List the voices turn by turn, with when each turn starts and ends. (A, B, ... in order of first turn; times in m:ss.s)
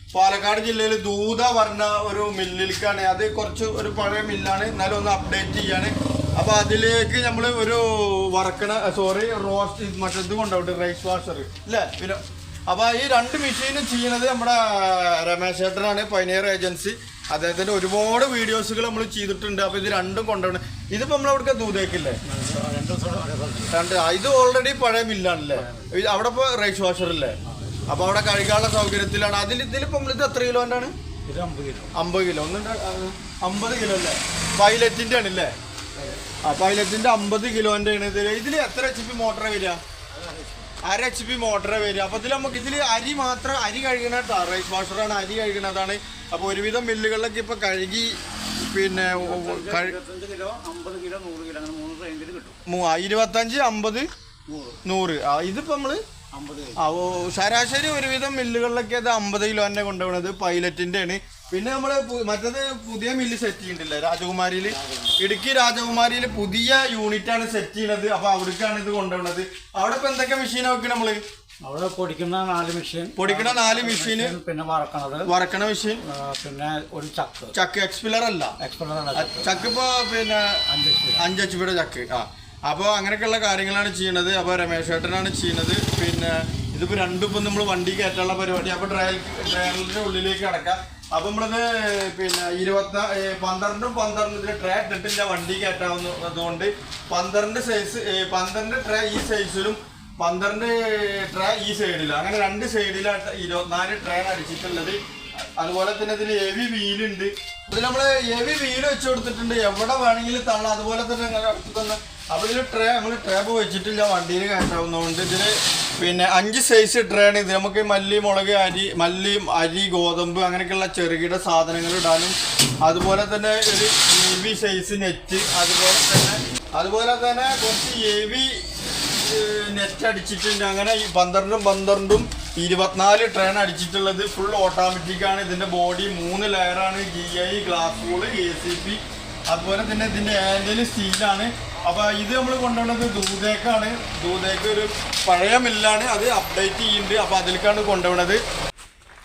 0:00.1-0:22.2 A
0:22.2-0:23.8 B
0:23.7-0:27.4 A
0:25.5-0:25.9 B
0:27.5-0:28.0 B
0:27.9-0:30.9 A
0:31.3-0:31.9 B
0:32.0-0:35.5 A
0:36.4-0:39.8 A
0:40.1-0:40.7 B
0:40.8-0:50.0 A
0:48.9-0:52.6 B
0:52.7-0:54.1 A
0:54.5-0:54.8 B
0:54.8-0:56.0 A
0:56.3-0:56.8 B
0:56.8-1:11.2 A
1:04.7-1:05.2 B
1:11.6-1:15.3 B
1:13.2-1:14.4 A
1:15.3-1:16.0 A
1:16.0-1:17.6 B
1:17.5-1:18.5 A
1:18.6-1:19.7 B
1:19.2-1:20.6 A
1:20.7-1:21.3 B
1:21.2-2:28.4 A